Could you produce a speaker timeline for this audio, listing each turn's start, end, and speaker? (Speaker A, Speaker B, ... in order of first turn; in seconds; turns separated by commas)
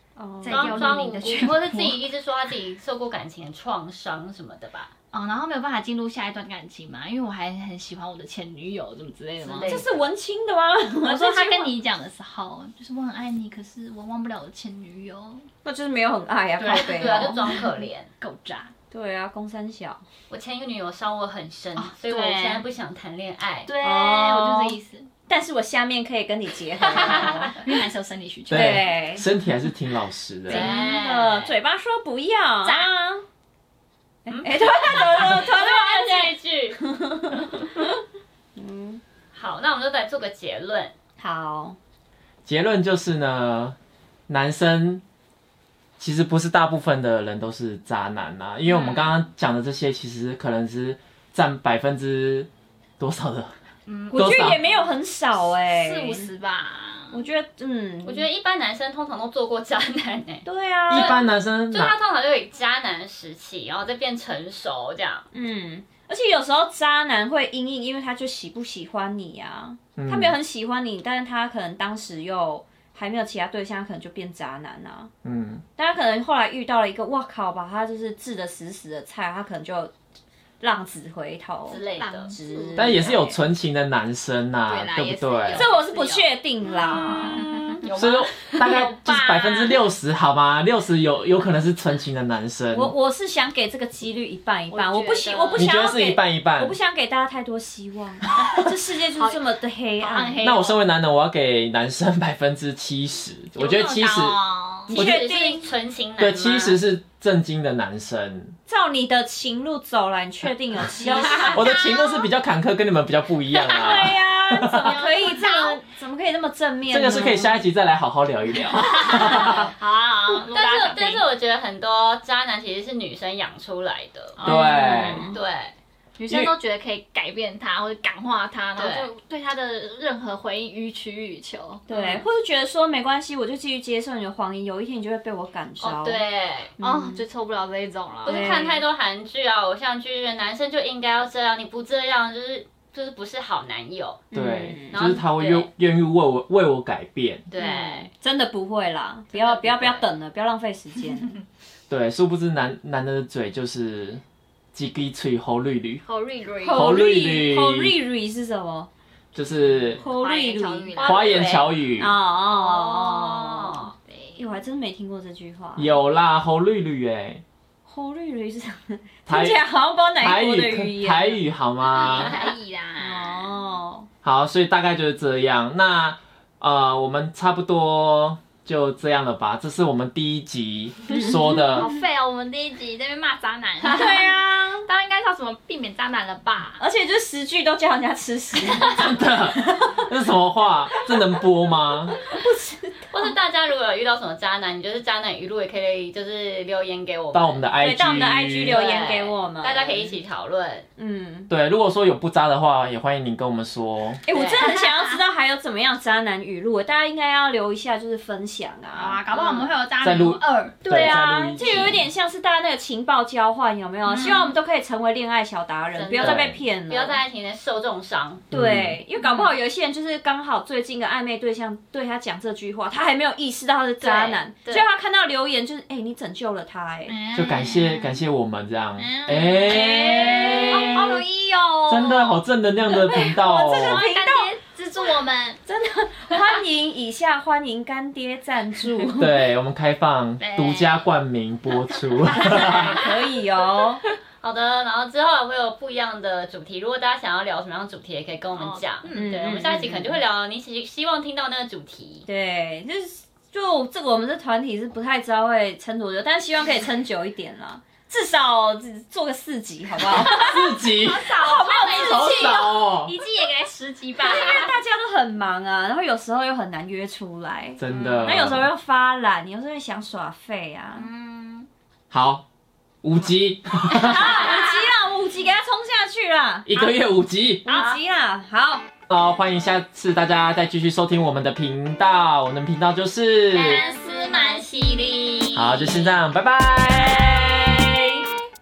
Speaker A: 0.2-1.0, Speaker B: 0.4-2.0, Speaker C: 0.5-4.9, Speaker B: 5.1-9.9, Speaker C: 9.4-9.9, Speaker A: 9.6-11.7, Speaker B: 11.0-15.5, Speaker A: 15.6-17.4, Speaker B: 16.6-17.6, Speaker C: 16.7-18.1, Speaker B: 18.2-18.7, Speaker A: 18.9-20.0, Speaker C: 20.3-23.7, Speaker B: 21.8-22.6, Speaker B: 23.7-25.1, Speaker A: 23.8-27.5, Speaker C: 26.9-27.6, Speaker B: 27.0-28.9, Speaker A: 28.5-29.2, Speaker D: 28.5-30.7, Speaker C: 30.5-31.5, Speaker A: 30.5-33.2, Speaker B: 30.5-30.9, Speaker B: 32.6-32.9, Speaker A: 34.2-37.9, Speaker C: 34.3-37.7, Speaker A: 38.5-39.0, Speaker C: 39.3-40.9, Speaker A: 41.2-41.8, Speaker D: 42.5-43.8, Speaker D: 44.3-45.0, Speaker D: 46.0-53.5, Speaker B: 53.9-54.9, Speaker A: 54.1-56.3, Speaker D: 54.1-54.6, Speaker B: 55.6-57.2, Speaker A: 57.1-58.3, Speaker C: 58.0-65.2, Speaker A: 60.4-61.2, Speaker D: 60.9-62.0, Speaker A: 65.3-75.1, Speaker D: 70.0-70.3, Speaker D: 75.2-75.6, Speaker A: 75.8-79.9, Speaker A: 80.6-83.4, Speaker C: 81.7-82.3, Speaker B: 82.0-83.0, Speaker D: 82.8-85.7, Speaker B: 84.7-89.8, Speaker A: 85.5-87.4, Speaker C: 87.4-88.3, Speaker D: 87.9-92.9, Speaker A: 92.7-100.5, Speaker B: 94.7-95.7, Speaker D: 95.5-96.8, Speaker B: 99.2-99.4, Speaker B: 100.0-100.8, Speaker D: 100.4-104.4, Speaker B: 103.6-104.9, Speaker A: 104.9-105.7, Speaker C: 104.9-106.8, Speaker D: 106.2-108.5, Speaker A: 108.7-112.1, Speaker C: 111.0-111.8, Speaker B: 111.0-111.7, Speaker D: 111.5-115.0, Speaker A: 113.5-117.6, Speaker B: 114.7-115.8, Speaker D: 116.9-119.7, Speaker B: 118.7-121.2, Speaker C: 120.5-124.4, Speaker B: 124.4-124.9, Speaker D: 124.4-125.3, Speaker A: 124.4-125.4, Speaker C: 125.3-125.7, Speaker B: 126.2-131.8, Speaker C: 128.8-129.1, Speaker A: 131.9-136.2, Speaker C: 131.9-132.2, Speaker C: 135.8-136.7, Speaker A: 136.8-137.2, Speaker B: 136.8-138.6, Speaker C: 138.2-144.2, Speaker A: 138.2-138.8, Speaker A: 144.3-145.2, Speaker D: 144.3-147.5, Speaker C: 144.9-145.7, Speaker C: 147.5-148.1, Speaker A: 147.6-151.3, Speaker C: 149.3-150.0, Speaker D: 151.9-154.2, Speaker D: 154.7-156.0, Speaker B: 156.0-157.0, Speaker A: 156.6-158.9, Speaker D: 156.7-157.9, Speaker D: 159.3-160.0, Speaker B: 160.0-161.4, Speaker A: 160.0-161.0, Speaker C: 161.0-161.7, Speaker D: 161.0-162.1, Speaker A: 162.0-163.8, Speaker C: 162.5-163.9, Speaker B: 164.1-164.4, Speaker A: 164.4-165.9, Speaker D: 165.8-167.4, Speaker A: 167.8-171.4, Speaker D: 169.3-169.6, Speaker D: 170.2-172.3, Speaker B: 171.9-173.5, Speaker C: 172.1-172.5, Speaker A: 173.0-174.1, Speaker D: 174.2-181.9, Speaker A: 181.1-182.1, Speaker B: 181.5-184.2, Speaker A: 183.9-184.9, Speaker B: 184.8-186.8, Speaker A: 186.8-190.0, Speaker D: 188.8-192.2, Speaker A: 192.2-193.1, Speaker C: 193.1-197.7, Speaker D: 197.3-198.8, Speaker A: 197.8-200.2, Speaker C: 198.6-200.9, Speaker A: 201.0-201.5, Speaker D: 201.5-204.2, Speaker A: 204.3-209.2, Speaker C: 204.3-204.7, Speaker B: 204.7-205.0, Speaker B: 208.9-211.2, Speaker C: 209.3-209.7, Speaker D: 210.0-212.1, Speaker A: 210.8-217.2, Speaker B: 214.1-214.5, Speaker C: 215.9-218.4, Speaker D: 216.2-216.6, Speaker D: 218.5-219.0, Speaker A: 218.5-227.2, Speaker B: 219.2-219.5, Speaker C: 224.0-224.9, Speaker B: 227.1-228.2, Speaker D: 227.3-231.2, Speaker B: 229.0-235.6, Speaker A: 229.3-231.1, Speaker D: 231.9-234.0, Speaker A: 233.3-234.5, Speaker A: 235.7-239.4, Speaker D: 239.2-243.0, Speaker B: 240.4-241.1, Speaker B: 242.3-242.9, Speaker A: 242.4-244.0, Speaker C: 244.4-252.3, Speaker B: 248.6-249.7, Speaker A: 249.1-250.2, Speaker A: 252.3-262.6, Speaker D: 260.1-263.1, Speaker B: 260.4-264.7, Speaker A: 264.2-271.1, Speaker D: 267.8-268.7, Speaker B: 267.9-268.5, Speaker B: 270.9-271.7, Speaker D: 272.1-272.4, Speaker D: 273.0-274.4, Speaker A: 273.9-277.0, Speaker D: 276.7-277.8, Speaker A: 277.6-278.9, Speaker C: 277.7-278.0, Speaker D: 279.1-283.8, Speaker B: 283.5-285.6, Speaker C: 283.5-286.1, Speaker D: 285.5-288.1, Speaker A: 286.9-288.3